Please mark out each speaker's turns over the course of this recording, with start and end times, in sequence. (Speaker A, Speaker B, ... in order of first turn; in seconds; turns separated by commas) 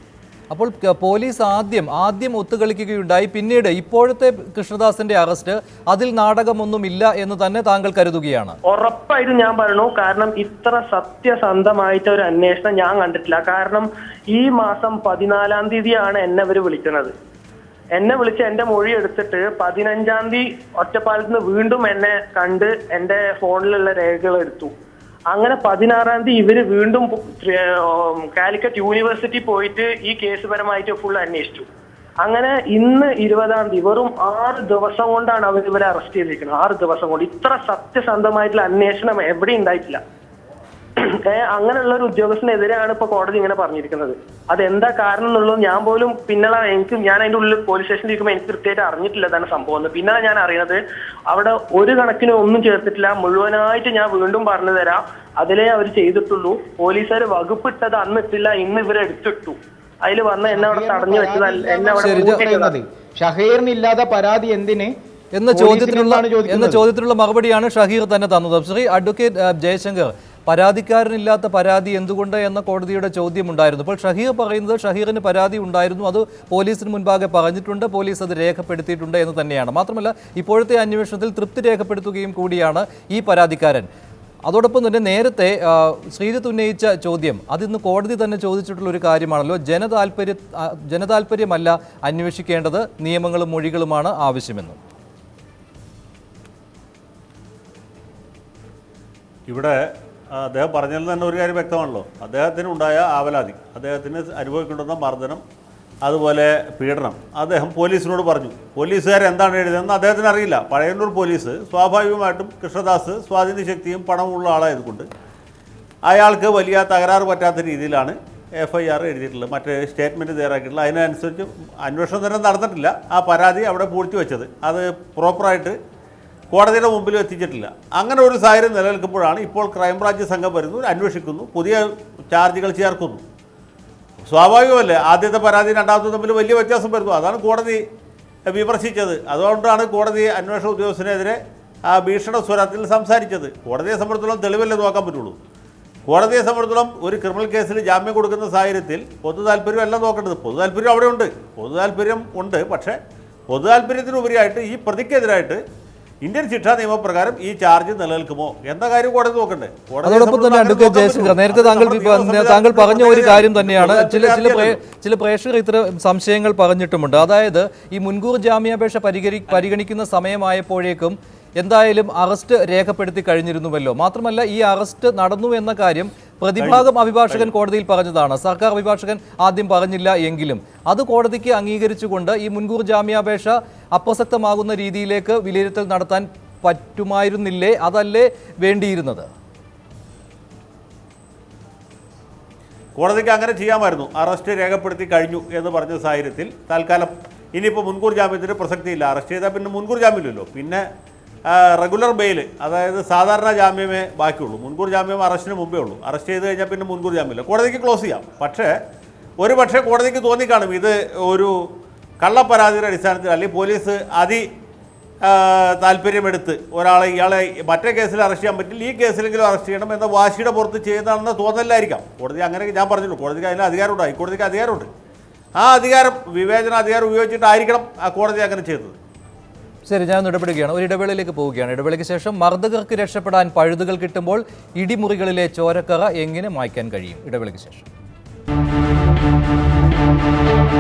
Speaker A: 0.5-8.6, Speaker B: 8.7-17.1, Speaker B: 17.9-24.7, Speaker B: 25.3-31.7, Speaker B: 32.2-40.0, Speaker B: 41.0-62.8, Speaker C: 60.5-64.9, Speaker A: 62.0-62.4, Speaker A: 65.3-83.9, Speaker C: 65.5-66.8, Speaker A: 84.4-94.8, Speaker D: 99.5-105.4, Speaker D: 106.0-115.1, Speaker D: 116.1-125.8, Speaker D: 126.5-133.2, Speaker D: 134.2-137.8, Speaker D: 138.5-145.4, Speaker D: 146.1-155.6, Speaker D: 156.2-164.8, Speaker A: 160.0-189.3, Speaker D: 176.6-177.5, Speaker D: 192.9-200.9, Speaker D: 201.5-208.7, Speaker D: 209.4-211.5, Speaker D: 212.2-214.5, Speaker D: 215.2-224.9, Speaker D: 225.6-229.0, Speaker A: 229.9-237.9